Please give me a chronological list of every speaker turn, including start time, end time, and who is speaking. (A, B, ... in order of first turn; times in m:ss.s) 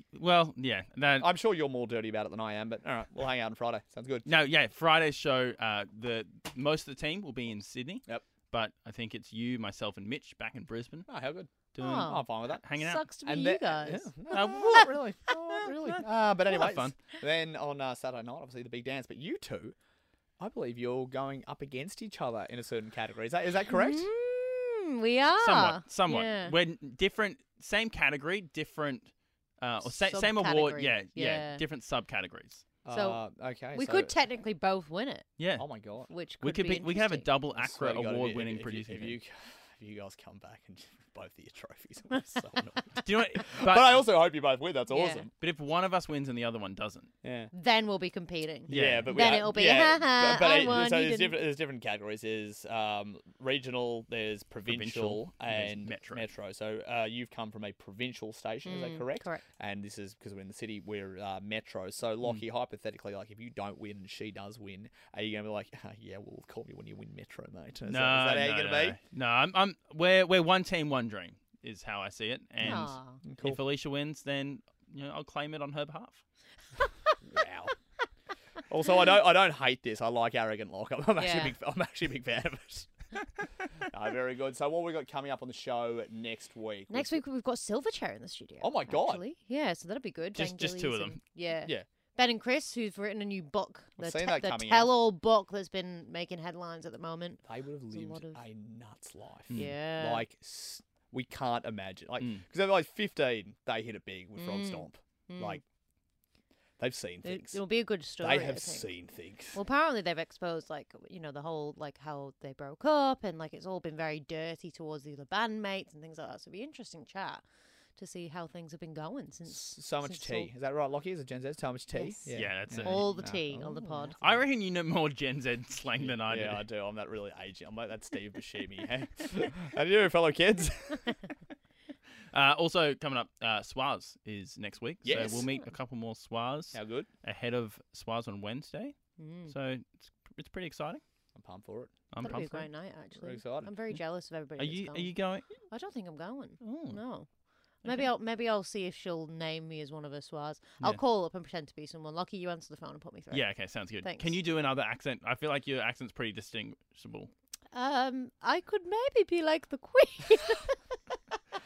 0:00.1-0:01.3 A
0:01.2-0:04.2 B
0:04.2-0:11.1 A
0:11.1-0:12.6 B
0:11.7-0:13.0 A
0:11.8-0:14.8 C
0:13.2-0:19.7 B
0:14.3-0:14.9 A
0:15.6-0:16.9 A
0:20.4-0:24.1 B
0:23.7-0:26.6 C
0:25.4-0:32.6 A
0:29.8-0:31.6 C
0:32.8-0:34.1 B
0:32.9-0:33.2 C
0:33.7-0:35.3 C
0:35.4-0:35.7 A
0:35.6-0:36.1 B
0:36.1-0:37.3 C
0:36.4-0:39.2 A
0:37.6-0:45.3 B
0:43.0-0:44.1 A
0:44.9-0:45.2 C
0:45.4-0:47.1 A
0:47.2-0:47.5 B
0:47.5-0:51.4 C
0:48.7-1:09.0 B
0:48.7-0:49.4 A
0:54.6-0:56.3 A
0:58.6-0:59.4 C
1:07.8-1:16.2 A
1:12.6-1:13.6 B
1:12.6-1:13.2 C
1:17.2-1:17.7 B
1:18.7-1:22.9 B
1:21.2-1:21.5 C
1:23.9-1:27.2 B
1:26.9-1:38.4 C
1:28.6-1:29.2 B
1:30.3-1:31.2 A
1:34.0-1:34.9 B
1:37.5-1:45.6 B
1:39.5-1:40.2 C
1:44.4-1:45.6 C
1:46.8-1:47.6 B
1:47.2-1:49.0 C
1:48.2-1:49.6 B
1:49.5-1:57.4 C
1:58.0-2:00.5 C
1:59.5-2:04.4 B
2:01.9-2:04.2 C
2:02.3-2:03.2 A
2:04.2-2:06.6 A
2:06.0-2:11.2 B
2:12.3-2:21.0 A
2:15.0-2:15.5 B
2:15.1-2:15.6 C
2:16.7-2:17.1 B
2:19.2-2:19.5 C
2:21.3-2:21.9 B
2:22.1-2:22.7 A
2:22.2-2:25.1 C
2:23.1-2:23.8 B
2:24.5-2:25.5 A
2:25.7-2:27.3 C
2:26.6-2:27.0 A
2:27.8-2:34.3 C
2:33.3-2:37.3 A
2:37.7-2:41.2 C